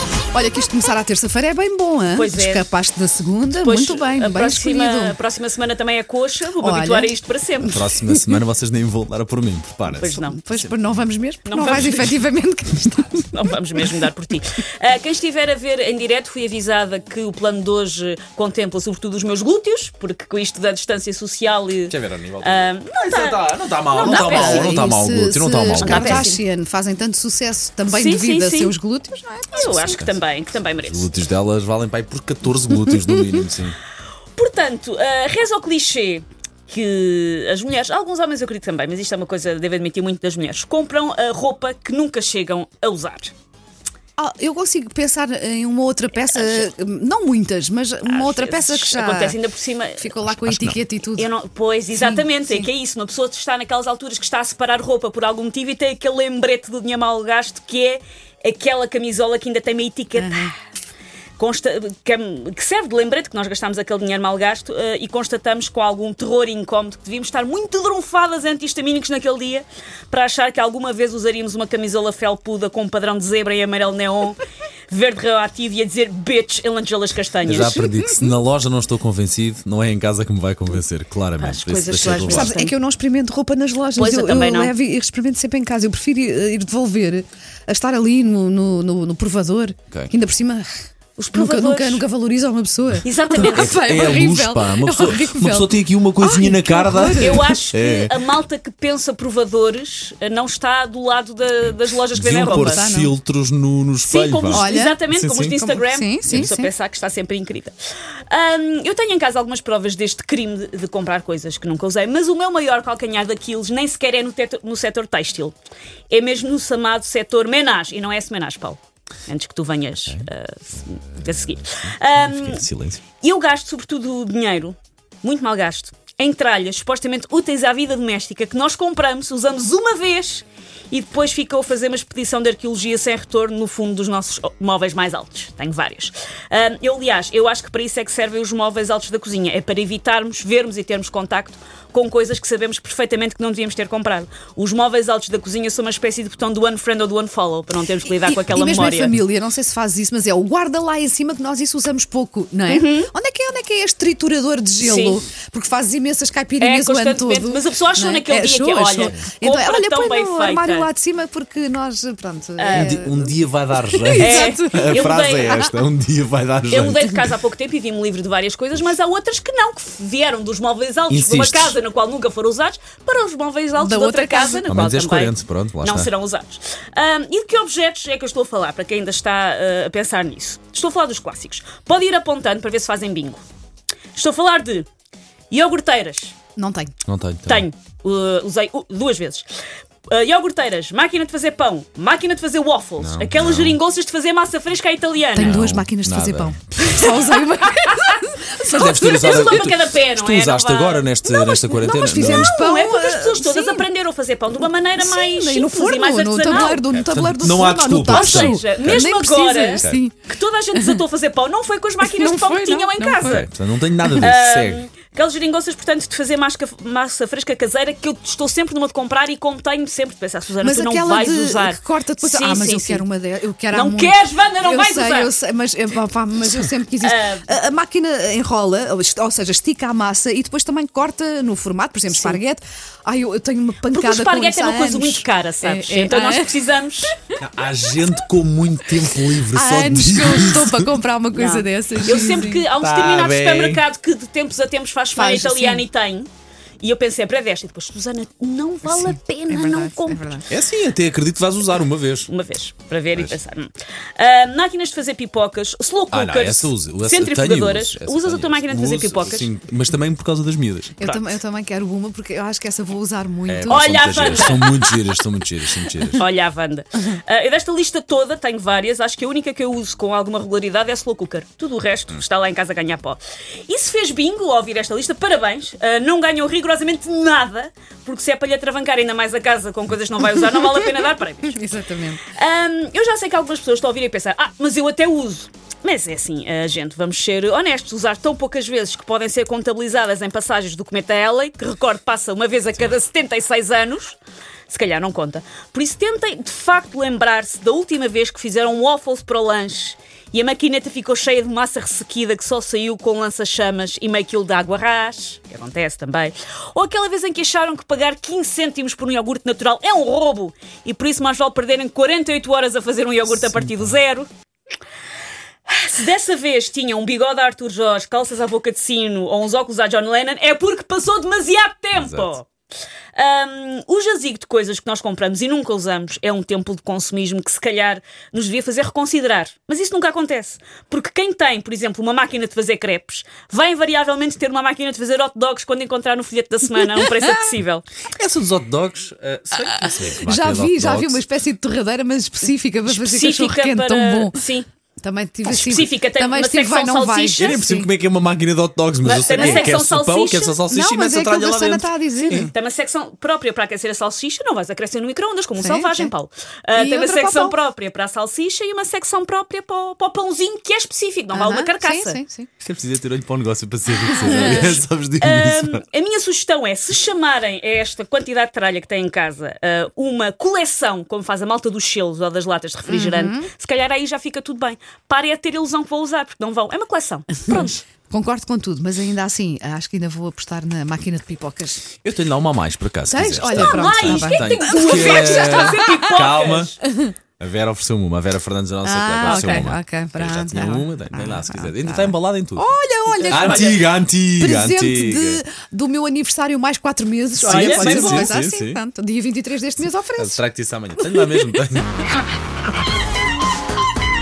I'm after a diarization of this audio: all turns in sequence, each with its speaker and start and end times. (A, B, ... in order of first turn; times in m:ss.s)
0:00.3-0:05.2 A
0:02.1-0:02.7 B
0:03.6-0:07.8 B
0:06.5-0:07.1 A
0:07.6-0:10.7 C
0:07.8-0:08.4 A
0:09.9-0:10.4 B
0:10.1-0:13.4 A
0:11.5-0:12.1 B
0:13.2-0:24.8 B
0:21.9-0:26.3 C
0:24.0-0:30.0 A
0:25.8-0:26.4 B
0:27.9-0:28.8 B
0:29.5-0:31.1 B
0:29.6-0:30.2 C
0:30.8-0:33.8 C
0:32.9-0:33.2 A
0:34.4-0:43.3 B
0:44.2-0:49.4 A
0:46.2-0:46.7 B
0:48.1-0:50.1 B
0:50.0-0:51.3 A
0:50.3-0:50.8 C
0:51.1-1:00.5 B
0:51.9-0:52.7 A
1:00.2-1:00.5 A
1:01.4-1:17.8 B
1:17.4-1:22.6 C
1:17.5-1:18.4 A
1:21.4-1:22.7 B
1:22.0-1:37.5 A
1:24.0-1:24.7 B
1:31.3-1:32.0 B
1:33.0-1:34.2 B
1:33.4-1:38.2 C
1:37.2-1:42.8 B
1:42.1-1:45.7 C
1:42.5-1:43.1 A
1:44.0-1:47.8 B
1:44.5-1:45.0 A
1:45.6-1:46.7 A
1:48.3-1:55.6 B
1:56.1-2:02.7 B
2:01.2-2:03.0 C
2:03.2-2:29.2 B
2:28.0-2:45.8 A
2:32.7-2:33.1 B
2:34.8-2:35.2 B
2:36.6-2:40.9 B
2:42.6-2:43.0 B
2:42.7-2:47.2 C
2:44.2-2:45.7 B
2:46.7-3:03.4 B
2:51.1-2:51.8 C
2:53.8-2:54.7 A
2:54.7-2:56.1 C
3:04.1-3:04.9 B
3:05.5-3:06.4 B
3:06.6-3:06.9 A
3:07.0-3:07.7 C
3:07.5-3:09.5 B
3:10.1-3:15.7 B
3:13.0-3:13.8 C
3:15.3-3:19.8 A
3:15.4-3:16.6 C
3:17.8-3:21.2 B
3:18.7-3:22.6 C
3:21.3-3:23.9 A
3:22.0-3:26.9 B
3:24.6-3:30.2 A
3:26.7-3:29.1 C
3:28.0-3:33.5 B
3:29.8-3:30.0 C
3:30.7-3:31.0 A
3:32.0-3:33.4 A
3:33.2-3:34.8 C
3:34.1-3:43.0 B
3:40.6-3:56.6 A
3:43.7-3:45.3 B
3:47.0-3:47.5 B
3:52.1-3:52.4 B
3:53.9-3:57.1 B
3:57.4-4:00.9 C
3:59.4-4:02.6 A
4:01.3-4:06.3 B
4:02.8-4:03.8 C
4:05.2-4:05.9 A
4:06.8-4:10.4 B
4:08.8-4:10.5 A
4:10.5-4:12.3 C
4:12.3-4:19.5 B
4:16.1-4:21.1 C
4:21.0-4:24.7 A
4:23.5-4:26.2 C
4:23.7-4:24.9 B
4:26.2-4:41.6 B
4:41.4-4:42.2 A
4:42.2-4:54.2 B
4:54.7-5:14.3 B
5:15.7-5:22.5 B
5:22.0-5:22.3 C
5:23.2-5:37.9 B
5:38.1-5:41.2 C
5:39.9-5:44.4 A
5:42.9-5:44.7 B
5:45.0-5:47.9 A
5:45.5-5:47.6 B
5:47.4-5:52.5 C
5:49.0-5:50.6 B
5:49.3-5:49.7 A
5:50.7-5:52.5 A
5:52.2-6:02.2 B
5:55.6-5:56.1 A
5:56.8-5:57.6 A
6:01.3-6:02.5 A
6:02.6-6:05.8 C
6:04.1-6:04.8 A
6:04.1-6:17.8 B
6:12.9-6:13.5 A
6:17.6-6:21.8 A
6:22.0-6:26.8 C
6:23.1-6:26.2 A
6:23.5-6:26.8 B
6:27.4-6:32.7 C
6:28.8-6:33.9 A
6:29.2-6:29.7 B
6:33.1-6:33.8 B
6:33.3-6:35.4 C
6:34.4-6:40.4 A
6:37.4-6:38.8 C
6:37.4-6:38.3 B
6:40.2-6:42.0 C